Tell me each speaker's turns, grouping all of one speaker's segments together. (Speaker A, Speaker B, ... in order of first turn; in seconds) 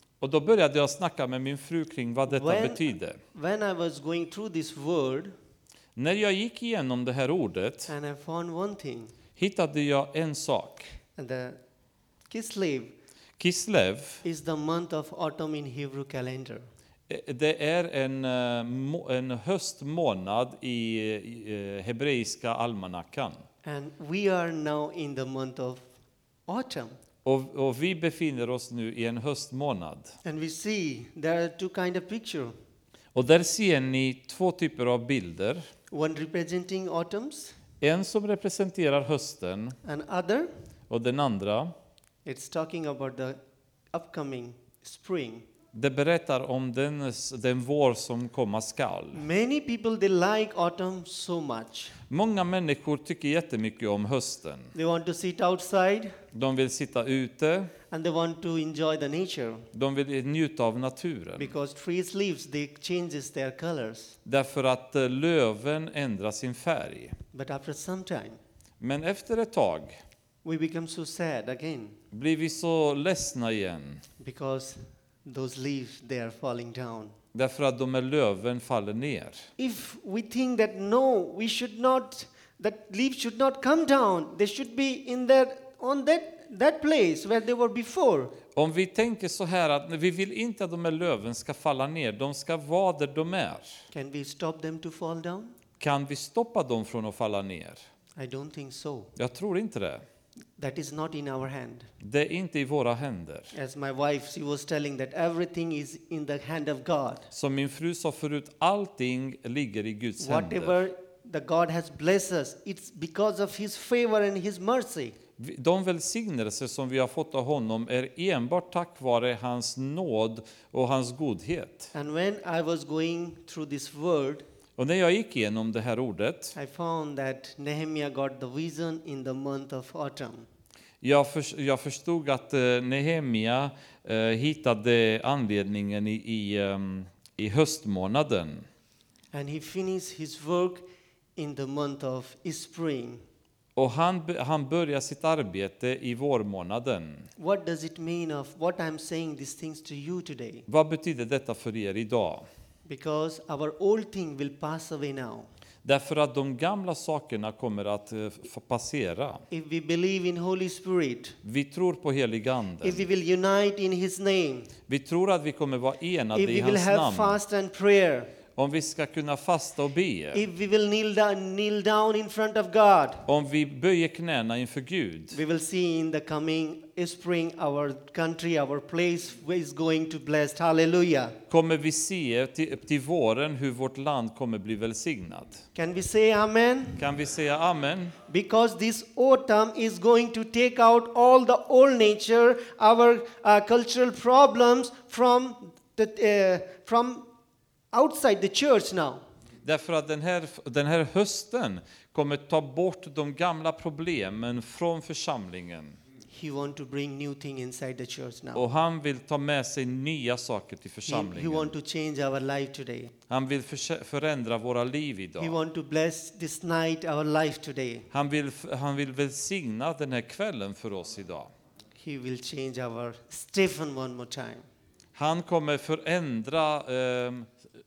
Speaker A: 0.2-3.2, 6.0-7.9, 9.4-10.9, 13.4-14.2, 17.1-23.4, 27.2-30.1, 33.1-35.6, 37.8-39.8, 40.9-41.7, 45.7-49.2, 52.1-54.7, 56.3-57.7, 59.7-61.5, 64.3-67.2, 68.8-70.0, 72.1-74.0, 77.3-79.5, 88.5-93.8, 95.8-97.8, 99.2-100.0, 102.0-103.5, 107.3-110.8, 115.4-121.9, 124.8-126.5, 131.0-138.7, 143.8-147.3, 150.7-152.5, 155.8-159.4, 161.4-163.1, 164.9-167.4, 168.6-170.4, 173.3-175.4, 181.5-185.6, 187.0-188.2, 199.7-206.0, 208.6-211.7, 213.3-215.6, 218.1-221.5, 225.2-227.5
Speaker B: 2.3-2.8, 3.3-5.3, 7.9-9.1, 11.2-11.6, 12.3-12.9, 14.2-16.7, 23.6-25.9, 26.5-27.0, 30.2-32.5, 35.9-37.5, 39.8-40.5, 42.2-43.4, 43.9-45.5, 49.1-52.0, 54.7-56.2, 57.9-59.7, 61.4-64.2, 67.3-68.4, 70.4-72.0, 74.2-77.2, 79.6-88.4, 93.9-95.5, 98.2-99.1, 100.6-101.9, 103.5-107.3, 110.2-115.2, 121.9-124.5, 126.5-130.5, 139.3-143.2, 147.4-150.7, 152.9-155.5, 159.5-161.4, 162.8-164.7, 166.3-168.3, 170.3-173.2, 175.3-181.4, 185.8-187.1, 188.3-197.3, 197.9-199.2, 206.3-208.6, 211.1-213.1, 215.4-218.1, 222.0-224.7